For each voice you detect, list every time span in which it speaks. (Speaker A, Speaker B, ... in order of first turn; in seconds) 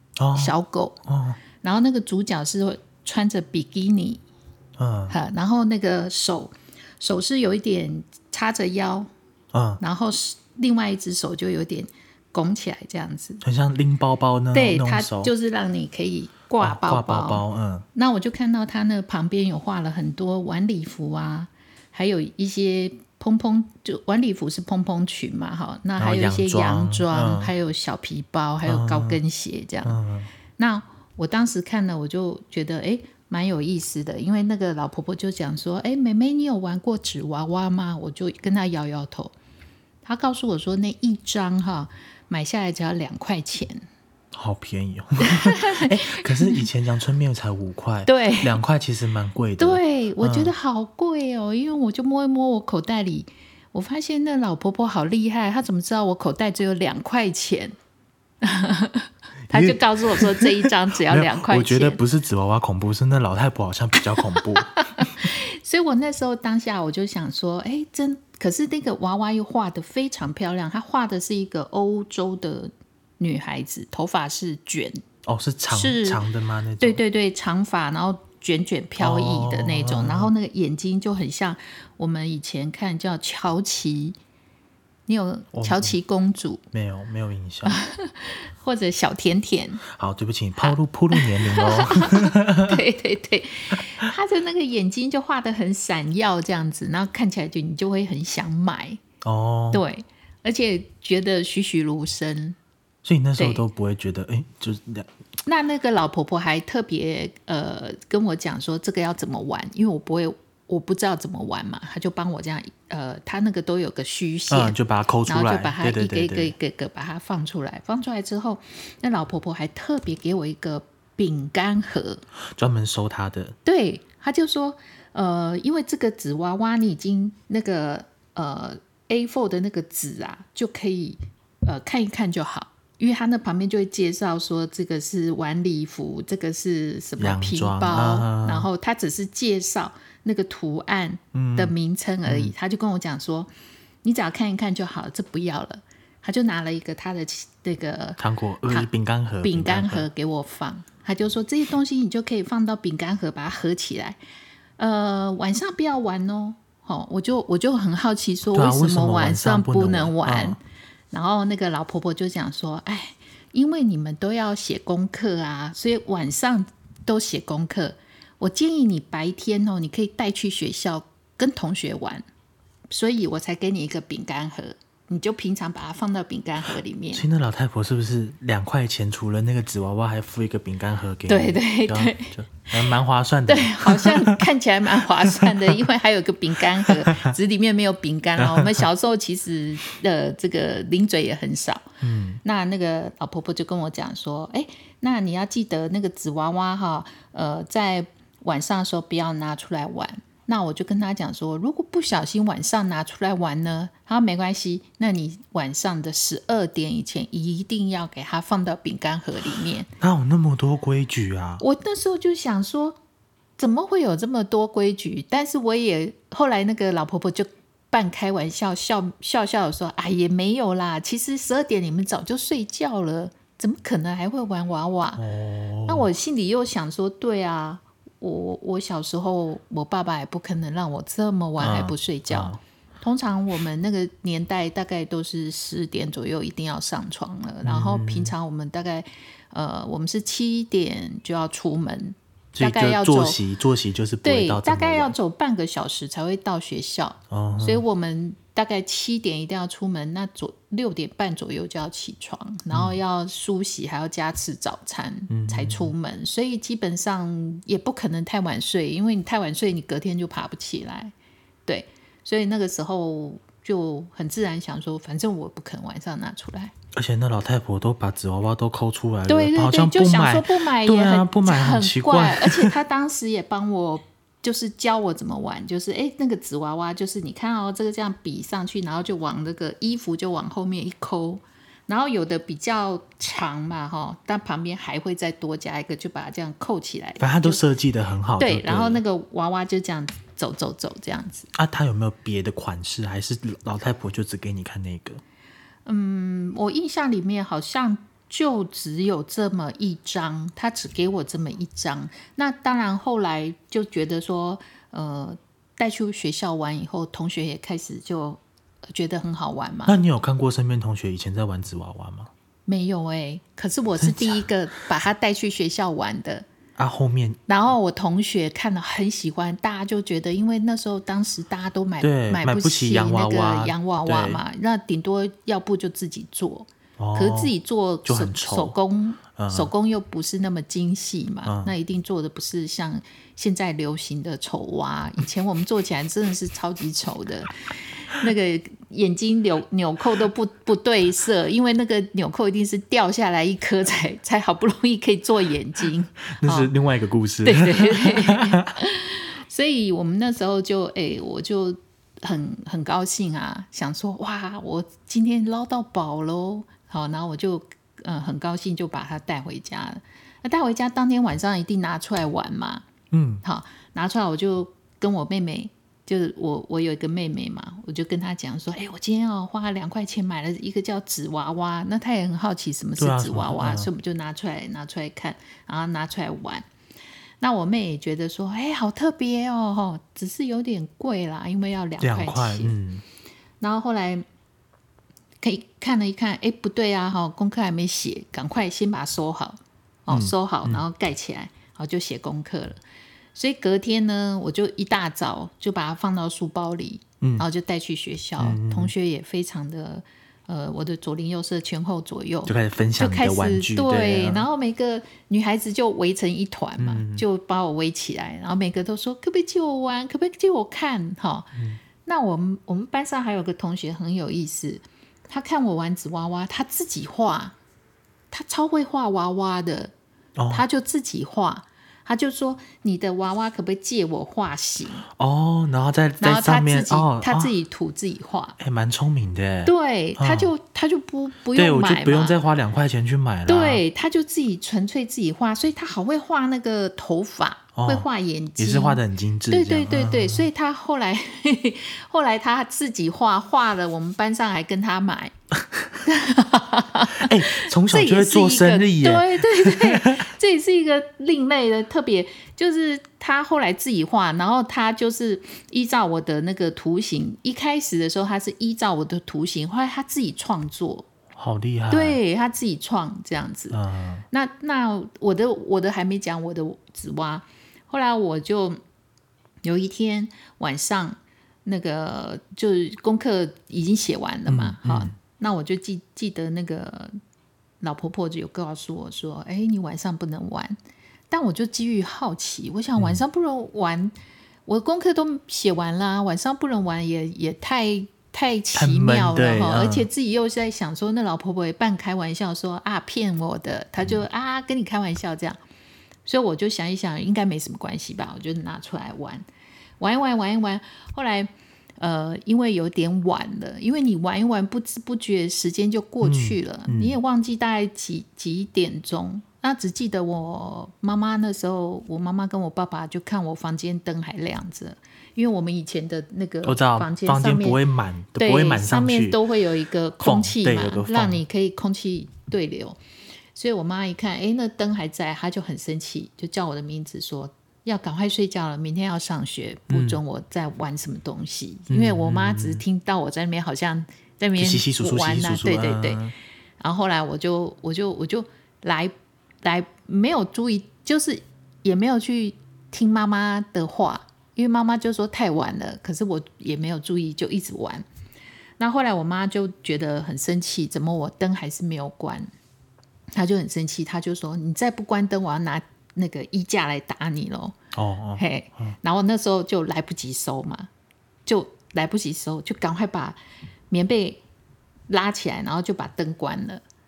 Speaker A: 0.2-0.6, 1.1-1.4, 4.8-5.2, 9.5-9.8, 13.4-15.3, 16.6-17.9, 26.0-27.5, 28.7-29.2, 29.9-30.3, 44.3-50.5, 59.5-65.3, 75.2-77.0, 79.0-80.3, 85.5-86.0, 86.7-87.8, 89.9-92.8, 99.2-99.8, 103.0-105.1, 114.5-116.5, 122.6-123.5, 137.2-138.7, 141.3-141.7, 142.3-142.5, 148.2-150.1, 158.5-160.6, 177.1-184.4, 185.0-185.8, 186.8-187.3, 188.4-188.8, 192.0-192.4, 210.0-211.6, 225.2-226.1, 231.6-232.6, 237.6-238.3, 242.6-245.1, 247.3-247.8, 252.7-253.0, 255.3-255.9, 266.9-272.8, 287.2-289.0, 291.6-295.2, 309.9-312.3, 314.0-314.4, 316.8-317.4, 322.0-324.4, 327.0-327.5, 328.1-328.8, 329.4-329.7, 331.4-331.7, 346.4-348.7, 363.1-363.4, 373.0-373.9, 382.0-383.0, 390.1-390.8, 397.2-397.5, 398.4-398.9, 402.5-404.4, 406.8-407.2, 411.6-411.8, 420.4-420.6, 425.1-427.5, 428.6-430.5, 431.6-433.8, 437.8-438.1, 438.6-440.5, 447.2-450.3, 461.4-462.2, 463.7-464.2, 474.5-475.1, 488.7-490.1, 506.2-507.2, 516.6-519.4, 520.2-521.4, 529.9-530.2, 531.9-532.8, 534.6-536.4, 557.9-559.0
Speaker B: 0.3-1.0, 1.6-4.2, 5.1-9.1, 9.8-13.4, 14.5-17.4, 17.9-30.0, 30.6-39.3, 40.0-43.9, 45.2-46.7, 48.1-48.6, 49.6-57.7, 58.4-62.0, 64.3-75.0, 75.7-76.2, 76.8-84.2, 85.1-86.6, 87.6-89.8, 90.6-99.0, 99.7-102.6, 103.4-103.6, 105.5-122.2, 123.7-143.5, 144.0-148.9, 149.4-154.2, 154.8-160.6, 161.1-172.2, 172.9-177.2, 181.3-182.3, 183.5-191.9, 192.4-209.9, 211.6-213.0, 213.6-225.2, 225.9-243.4, 244.2-261.1, 261.7-266.7, 269.3-287.6, 288.4-291.5, 295.9-310.0, 312.7-316.5, 317.5-346.7, 347.4-362.9, 363.4-376.7, 377.4-382.8, 383.6-384.2, 385.4-392.8, 393.4-411.5, 412.0-417.6, 418.3-419.9, 420.5-425.1, 426.2-428.6, 429.6-432.4, 433.5-445.4, 446.0-461.1, 461.9-463.8, 464.3-468.8, 469.6-477.1, 477.8-480.8, 481.3-484.1, 484.7-495.6, 496.2-499.5, 500.0-501.5, 502.0-517.8, 518.4-523.0, 523.5-536.2, 536.8-548.0, 548.8-552.5, 553.3-557.8, 558.4-560.9, 561.5-563.4, 563.9-564.4, 565.1-566.8